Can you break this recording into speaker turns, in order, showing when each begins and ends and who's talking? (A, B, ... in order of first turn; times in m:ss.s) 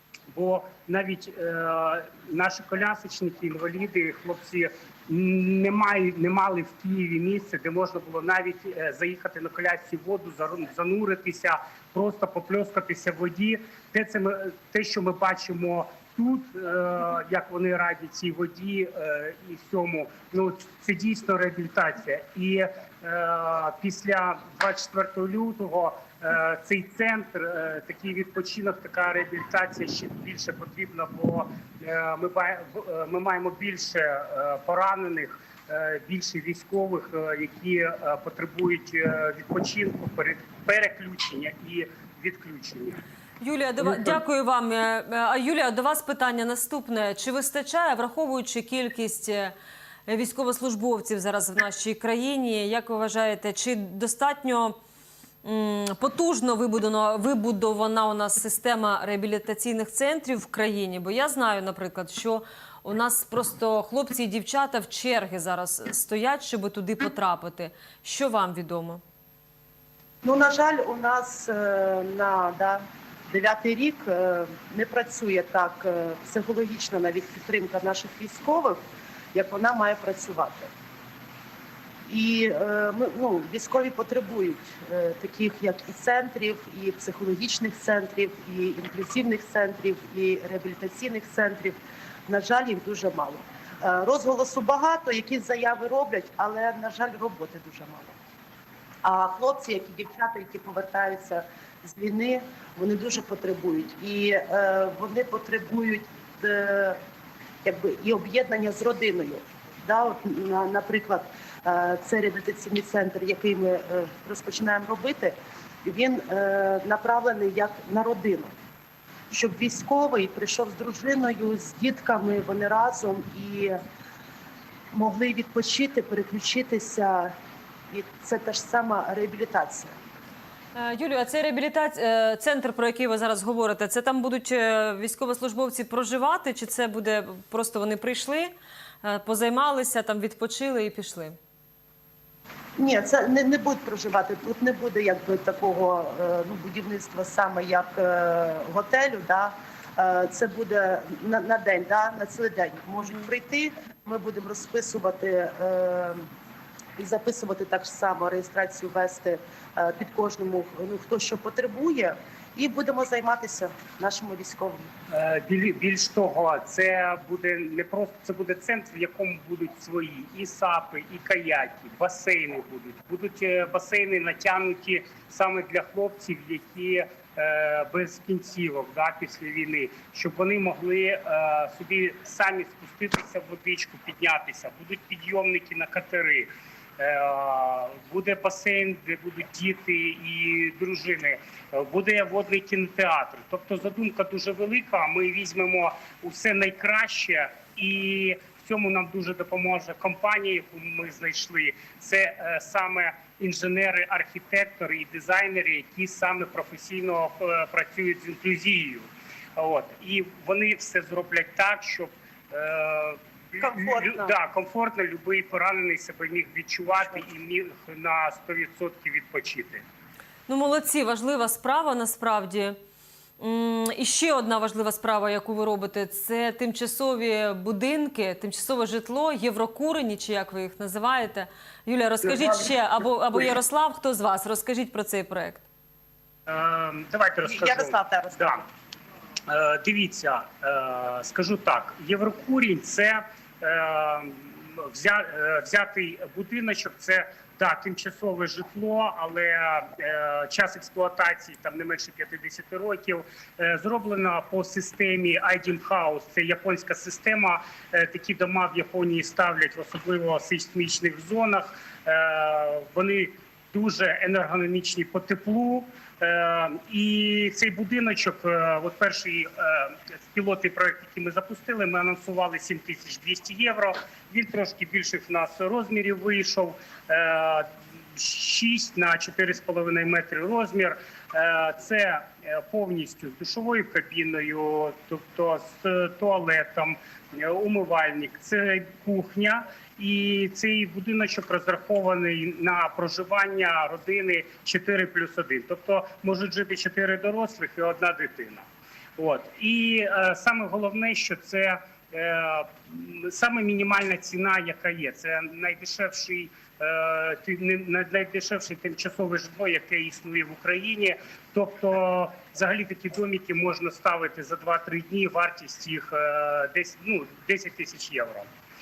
0:00.3-0:43.0 A
0:43.4-0:49.5 B
0:43.8-0:44.2 A
0:50.1-0:54.8 B
0:55.4-1:09.0 B
1:10.2-1:18.8 C
1:19.3-1:20.7 C
1:22.1-1:38.2 C
1:39.0-1:47.0 C
1:47.6-1:58.5 C
1:59.3-2:03.8 C
2:04.9-2:07.3 C
2:07.9-2:09.9 C
2:10.8-2:18.5 B
2:19.0-2:21.4 B
2:22.8-2:36.3 C
2:37.0-2:44.9 C
2:45.1-3:39.8 A
3:33.6-3:34.3 C
3:40.5-3:42.8 B
3:43.4-3:55.6 B
3:56.5-3:58.6 A
3:57.4-3:58.6 C
3:59.5-4:58.6 A
4:59.2-5:18.5 A